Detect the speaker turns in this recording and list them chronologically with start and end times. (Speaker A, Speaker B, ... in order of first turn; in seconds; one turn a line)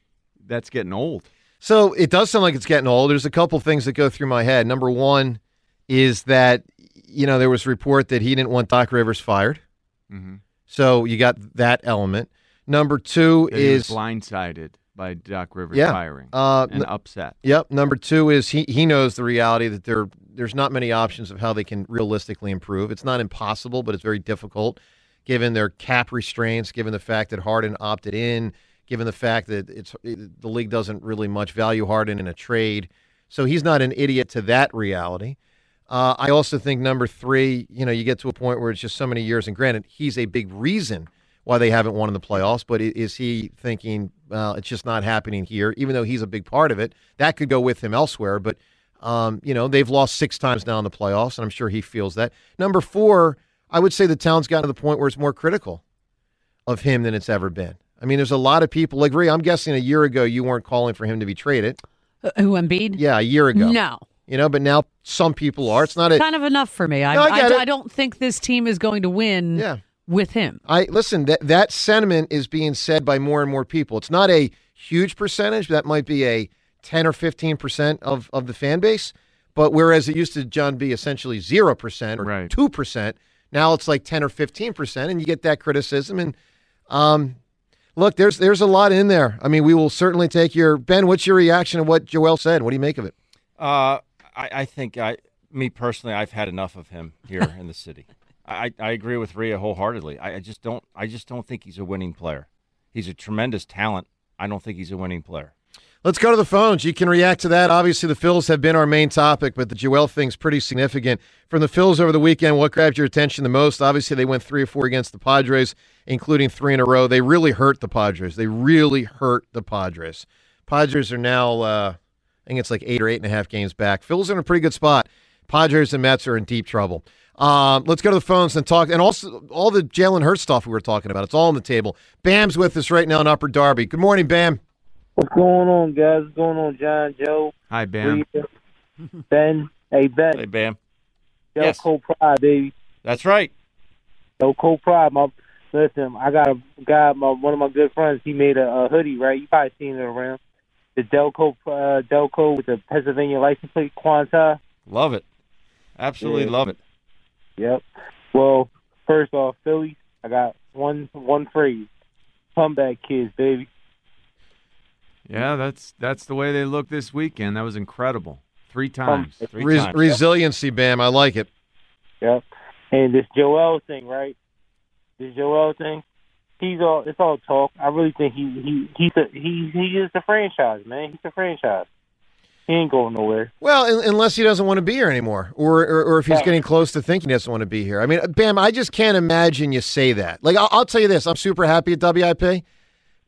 Speaker A: 0.4-1.3
Speaker B: 1.6-9.6
Speaker A: 10.1-10.4
Speaker B: 10.7-14.0
Speaker A: 13.5-17.3
Speaker B: 15.7-16.9
Speaker B: 17.4-35.4
Speaker B: 35.9-55.8
Speaker B: 56.7-61.8
Speaker C: 62.2-64.0
Speaker B: 63.0-66.2
Speaker C: 66.1-70.6
Speaker B: 67.1-67.6
Speaker B: 69.5-69.8
Speaker B: 70.7-86.3
Speaker A: 82.2-82.5
Speaker B: 86.9-87.4
Speaker B: 88.0-93.1
Speaker D: 93.6-105.5
Speaker B: 106.0-122.0
Speaker B: 122.5-134.6
Speaker E: 135.2-138.4
Speaker A: 137.7-138.2
Speaker E: 139.3-140.4
Speaker D: 140.3-140.8
Speaker E: 141.6-142.7
Speaker D: 141.6-141.9
Speaker D: 143.0-143.5
Speaker E: 144.4-150.4
Speaker E: 150.9-154.6
Speaker D: 154.9-155.2
Speaker D: 156.0-156.8
Speaker E: 156.2-156.7
Speaker E: 157.6-161.9
Speaker E: 162.6-163.7
Speaker A: 165.3-169.7
Speaker E: 169.1-169.5
Speaker D: 169.6-170.0
Speaker B: 169.6-171.5
Speaker E: 172.2-174.4
Speaker E: 175.2-176.0
Speaker E: 176.6-181.9
Speaker E: 182.7-183.5
Speaker B: 183.6-192.6